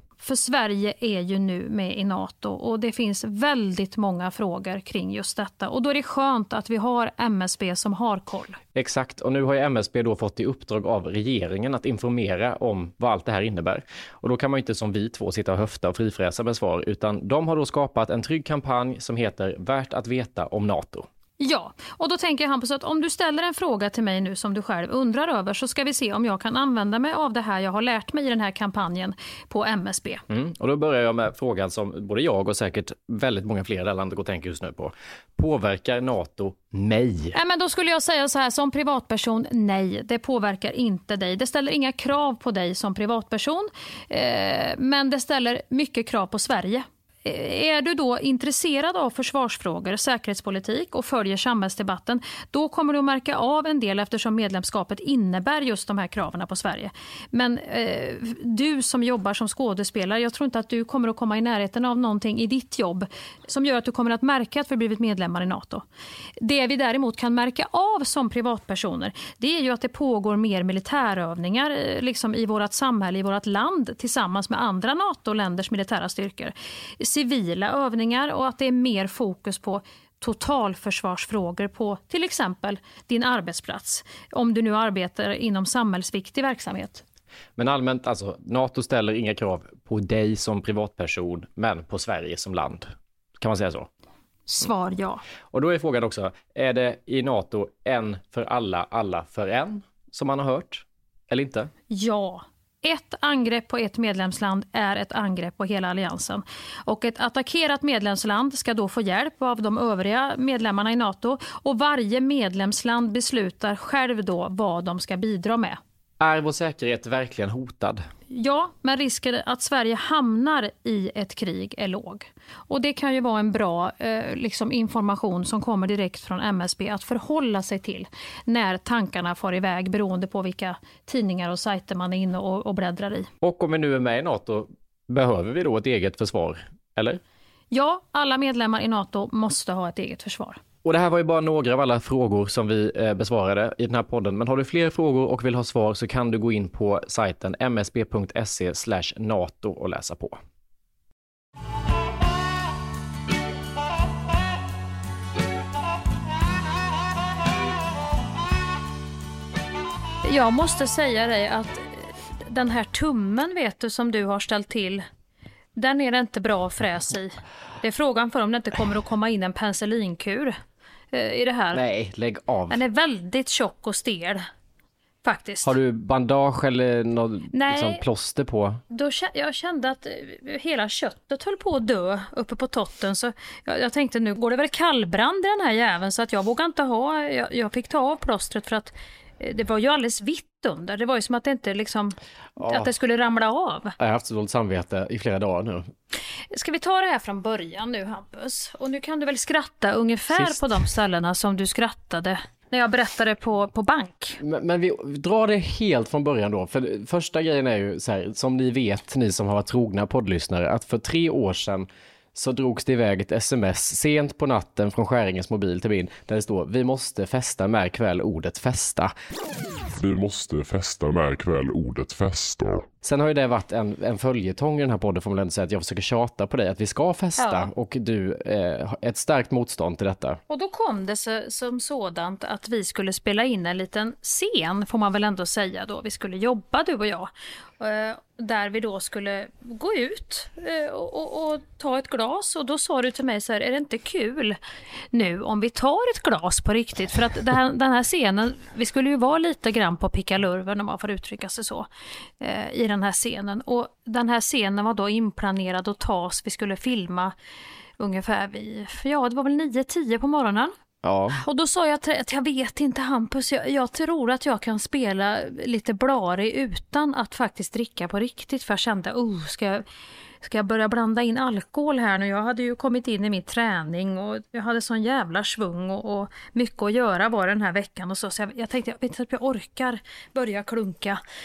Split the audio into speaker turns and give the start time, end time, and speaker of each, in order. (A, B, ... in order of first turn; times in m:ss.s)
0:00.2-0:08.6 A
0:08.8-0:21.1 B
0:21.4-0:30.2 A
0:30.3-0:37.4 B
0:37.3-1:05.8 A
1:06.4-1:27.0 A
1:27.6-1:33.9 B
1:34.5-1:35.2 A
1:35.5-1:41.7 B
1:41.9-1:55.8 A
1:56.2-1:58.1 B
1:58.3-2:13.3 A
2:13.4-2:17.2 B
2:17.7-2:20.6 A
2:20.8-2:30.4 B
2:40.2-2:45.0 A
2:45.8-2:50.6 A
2:51.1-2:51.8 A
2:51.7-2:52.8 B
2:52.7-2:54.4 A
2:55.2-2:55.7 A
2:55.6-2:58.8 B
2:57.5-2:58.0 A
2:58.9-3:14.0 A
3:12.6-3:12.9 B
3:14.0-3:15.9 B
3:16.5-3:24.4 A
3:20.3-3:20.9 B
3:24.4-3:39.1 B
3:40.0-3:42.9 C
3:43.0-3:50.4 B
3:47.4-3:47.7 A
3:50.5-4:04.6 A
4:05.1-4:11.9 A
4:12.4-4:17.3 A
4:18.0-4:20.7 A
4:21.0-4:21.4 B
4:21.4-4:29.8 A
4:30.4-4:41.2 A